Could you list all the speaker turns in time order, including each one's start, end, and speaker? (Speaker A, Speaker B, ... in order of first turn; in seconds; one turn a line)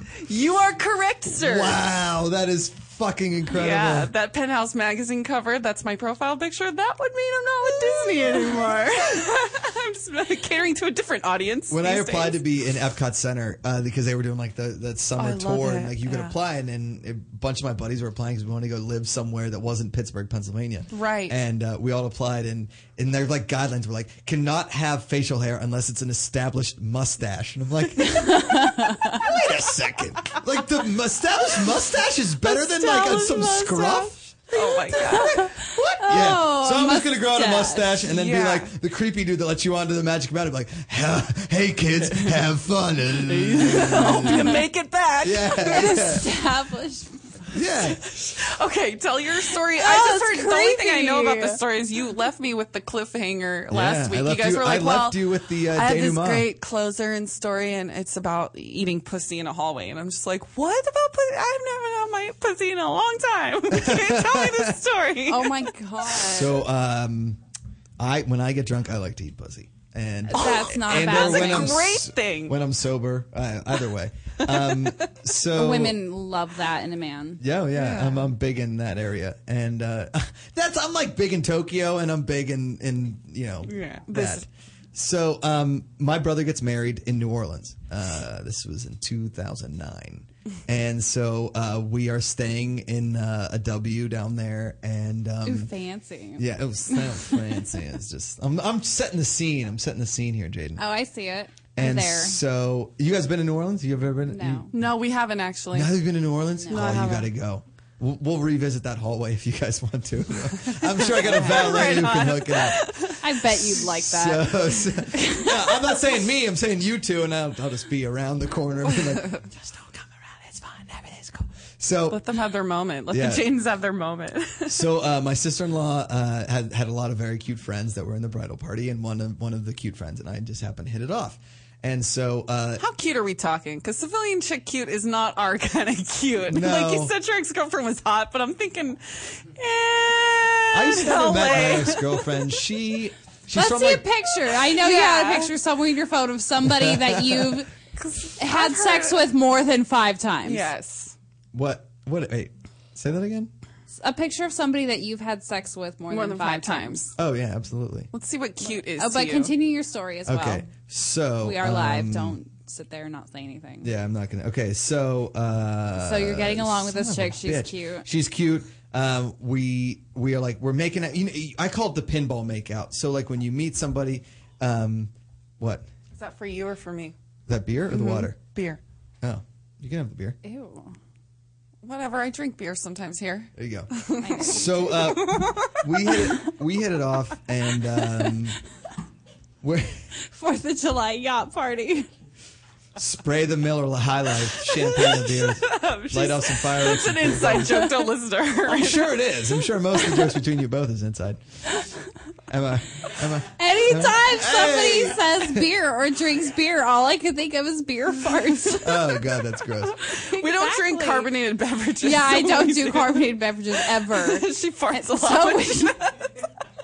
Speaker A: 0.2-1.8
Speaker B: 1.4-4.1
Speaker A: 3.5-12.4
Speaker C: 7.7-8.7
Speaker B: 11.7-44.6
Speaker A: 15.2-16.4
Speaker A: 20.9-21.4
Speaker C: 28.2-29.2
Speaker C: 32.4-34.1
Speaker A: 34.5-35.4
Speaker C: 34.9-38.0
Speaker A: 38.0-38.7
Speaker A: 43.3-46.2
Speaker C: 43.9-44.6
Speaker B: 45.2-46.3
Speaker C: 45.6-47.2
Speaker B: 47.5-48.3
Speaker A: 47.9-65.7
Speaker C: 49.8-51.6
Speaker B: 53.7-56.5
Speaker B: 63.7-64.8
Speaker C: 65.3-66.6
Speaker B: 66.2-67.4
Speaker B: 68.0-76.0
Speaker C: 70.3-71.8
Speaker A: 70.4-72.6
Speaker A: 74.4-75.1
Speaker C: 75.5-77.4
Speaker B: 77.4-95.7
Speaker A: 77.8-78.3
Speaker A: 83.7-84.5
Speaker C: 95.5-96.5
Speaker B: 96.4-100.8
Speaker C: 100.8-102.4
Speaker B: 101.8-104.7
Speaker C: 104.3-104.7
Speaker A: 104.7-106.0
Speaker B: 105.7-112.9
Speaker C: 106.6-106.9
Speaker A: 106.7-107.3
Speaker A: 110.6-113.3
Speaker C: 111.3-112.1
Speaker C: 113.2-115.5
Speaker B: 113.8-119.4
Speaker A: 118.9-119.6
Speaker A: 120.7-121.4
Speaker B: 121.8-122.2
Speaker A: 122.1-124.9
Speaker B: 123.1-123.5
Speaker B: 124.7-132.8
Speaker A: 132.8-142.5
Speaker B: 136.5-137.1
Speaker B: 140.7-144.1
Speaker C: 143.5-147.7
Speaker A: 144.8-145.5
Speaker B: 146.6-147.6
Speaker A: 148.0-149.3
Speaker C: 148.4-150.7
Speaker A: 150.4-151.2
Speaker B: 151.5-153.5
Speaker C: 153.9-157.0
Speaker A: 156.1-157.1
Speaker B: 157.2-158.1
Speaker A: 158.1-159.6
Speaker C: 158.6-160.7
Speaker B: 160.3-162.4
Speaker C: 161.4-163.9
Speaker B: 163.8-175.9
Speaker C: 166.0-168.1
Speaker A: 176.2-177.2
Speaker B: 177.5-178.4
Speaker A: 177.9-178.8
Speaker B: 179.2-180.4
Speaker C: 180.4-181.0
Speaker A: 181.8-185.8
Speaker B: 183.6-188.6
Speaker C: 184.2-185.0
Speaker B: 189.6-190.0
Speaker C: 190.3-192.1
Speaker B: 193.0-197.9
Speaker A: 195.1-199.3
Speaker B: 198.7-201.4
Speaker B: 202.5-205.7
Speaker C: 203.6-209.2
Speaker B: 208.8-210.0
Speaker A: 210.0-216.5
Speaker C: 210.1-211.3
Speaker C: 212.0-216.0